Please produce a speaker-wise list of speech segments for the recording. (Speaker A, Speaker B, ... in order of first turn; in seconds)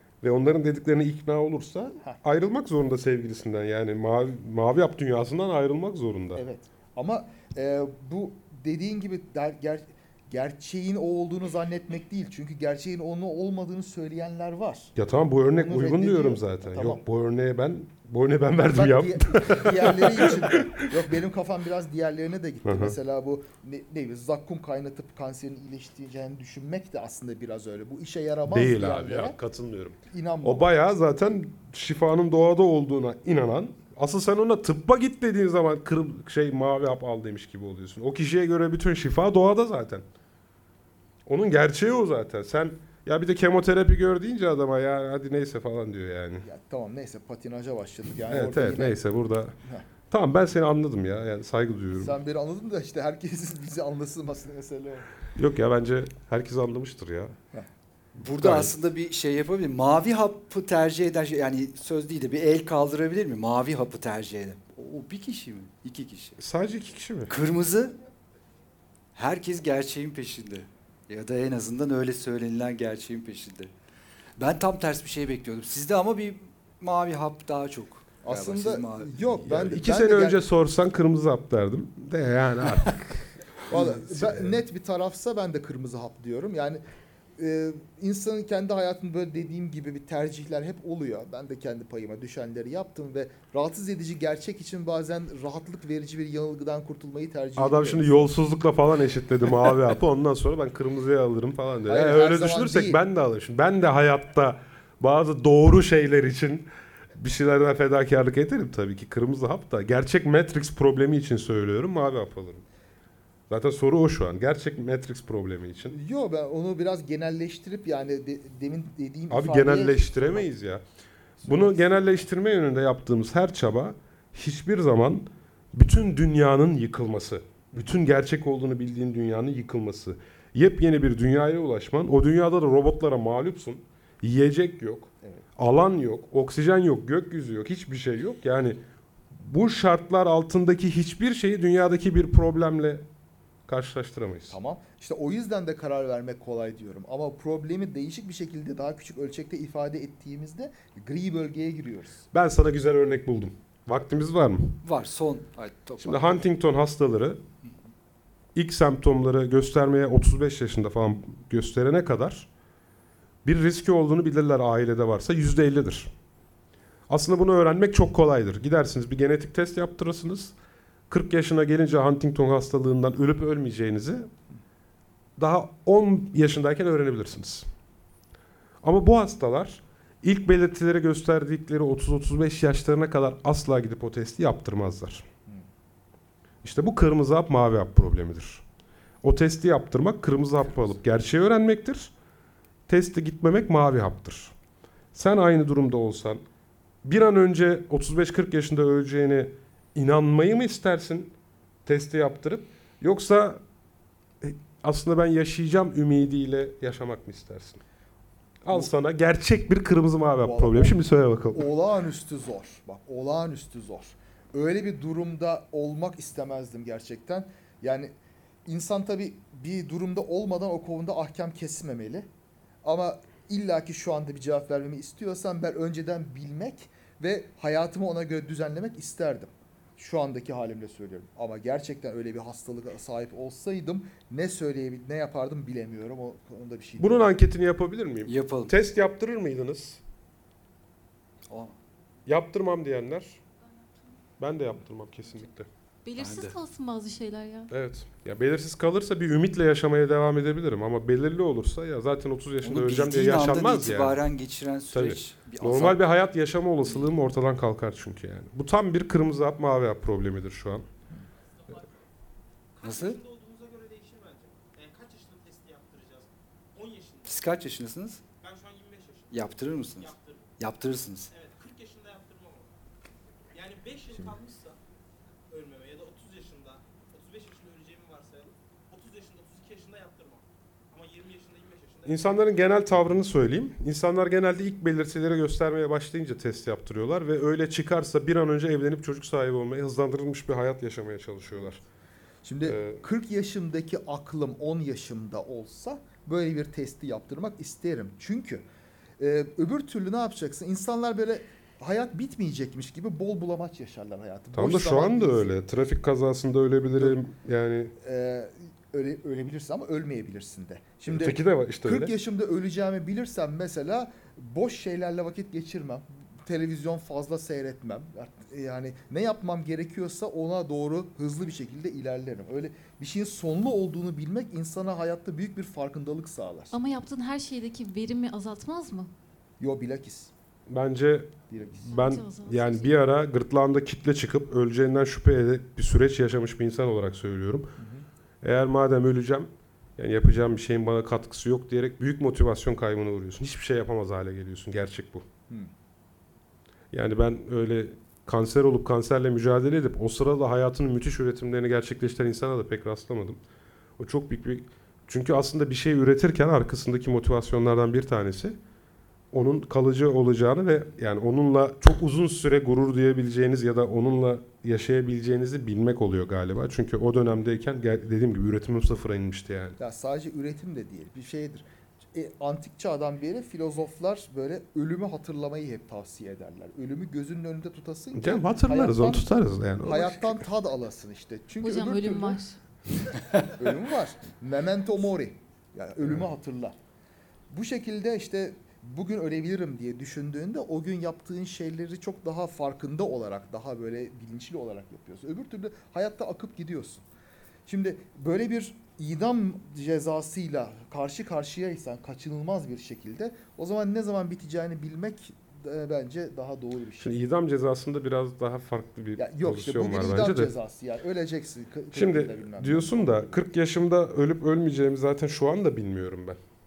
Speaker A: 0.2-6.4, 14.9-20.9, 22.6-22.9, 28.5-40.0, 41.2-46.5, 48.3-49.6, 50.1-52.2, 55.3-57.4, 58.3-58.7, 66.4-67.3, 79.4-84.5, 97.6-112.6, 113.5-116.0, 119.3-120.8, 121.4-138.8, 139.3-143.0, 143.7-144.6, 152.3-154.8, 156.0-157.4, 158.5-162.5, 163.4-166.1, 167.1-170.5, 171.1-174.3, 175.4-177.7, 178.8-185.2, 186.6-188.6, 189.2-192.1, 192.9-194.5, 195.1-196.4, 197.0-201.3, 201.8-203.6, 204.4-207.8, 208.6-211.7, 237.0-240.0, 242.2-243.4, 244.4-245.7, 247.7-254.2, 254.9-260.9, 282.1-291.8, 292.6-293.0, 304.5-307.9, 311.1-312.1, 330.7-337.7, 338.4-345.2, 346.9-353.4, 354.0-358.6, 359.3-369.8, 378.1-380.4, 407.0-410.5, 411.9-416.4
Speaker B: 6.3-14.9, 15.5-17.0, 18.7-29.4, 30.1-30.7, 46.4-49.0, 52.0-55.1, 78.2-80.4, 83.7-86.8, 87.4-98.3, 101.8-103.0, 115.9-120.5, 121.4-122.2, 144.5-152.2, 210.4-211.0, 211.5-218.1, 218.7-222.3, 222.8-237.3, 292.4-298.6, 299.2-305.5, 308.0-326.7, 329.6-330.3, 331.5-332.0, 337.8-338.1, 369.8-379.3, 379.8-382.4, 383.4-386.8, 387.5-397.0, 397.6-407.2, 409.2-413.4
Speaker C: 58.2-66.4, 67.3-67.9, 69.1-73.7, 74.4-79.4, 154.8-156.3, 238.2-238.7, 241.5-241.8, 246.2-246.5, 252.6-256.0, 262.8-263.2, 267.2-268.2, 269.3-271.3
Speaker D: 246.0-247.7, 326.7-329.1, 331.9-333.0, 381.6-382.6
Speaker E: 261.6-261.9, 262.8-267.5, 268.4-270.5, 271.3-272.7, 273.5-274.8, 275.5-282.5